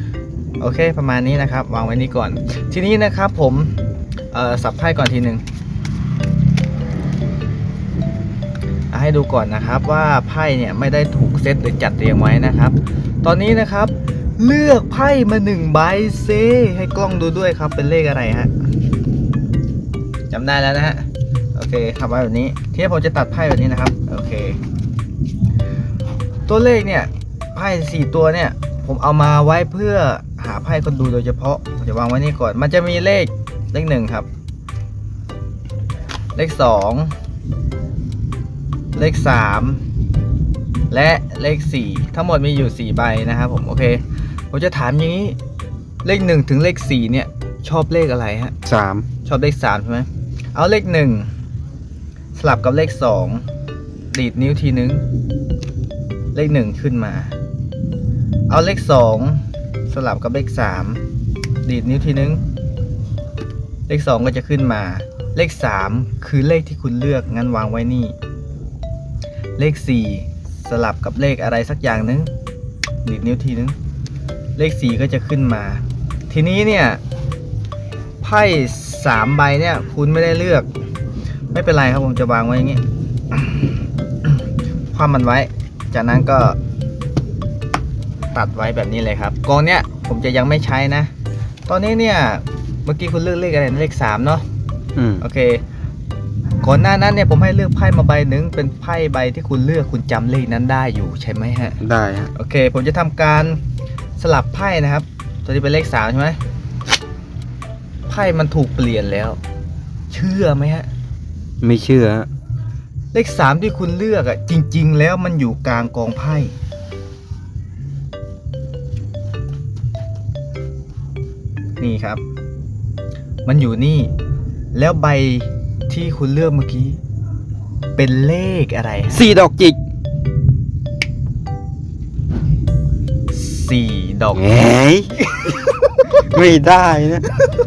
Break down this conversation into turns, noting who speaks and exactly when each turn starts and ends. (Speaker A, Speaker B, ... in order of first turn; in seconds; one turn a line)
Speaker A: 0.6-3.8
Speaker A: 4.3-5.4
Speaker A: 8.9-18.5
Speaker A: 20.3-24.6
Speaker A: 26.5-34.3
Speaker A: 36.3-37.1
Speaker A: 38.9-39.8
Speaker A: 40.9-45.4
Speaker A: 46.0-48.5
Speaker B: 48.6-49.1
Speaker A: 49.2-51.3
Speaker A: 52.3-53.4
Speaker A: 54.1-55.0
Speaker A: 56.3-57.4
Speaker A: 58.5-61.0
Speaker A: 61.6-62.4
Speaker A: 63.9-68.2
Speaker A: 69.6-72.3
Speaker A: 73.0-73.8
Speaker A: 74.5-77.0
Speaker A: 78.2-80.7
Speaker A: 81.5-83.7
Speaker A: 84.9-86.6
Speaker A: 88.3-91.1
Speaker A: 91.7-94.4
Speaker B: 95.0-95.2
Speaker A: 95.2-95.6
Speaker A: 96.6-101.8
Speaker B: 101.8-102.3
Speaker A: 102.3-103.6
Speaker A: 104.2-106.4
Speaker A: 108.1-109.4
Speaker A: 110.1-110.9
Speaker B: 111.6-112.3
Speaker A: 113.1-116.5
Speaker A: 121.8-122.2
Speaker A: 123.4-124.1
Speaker A: 124.7-127.0
Speaker A: 128.0-129.2
Speaker B: 129.1-129.8
Speaker A: 133.3-134.5
Speaker B: 134.3-137.4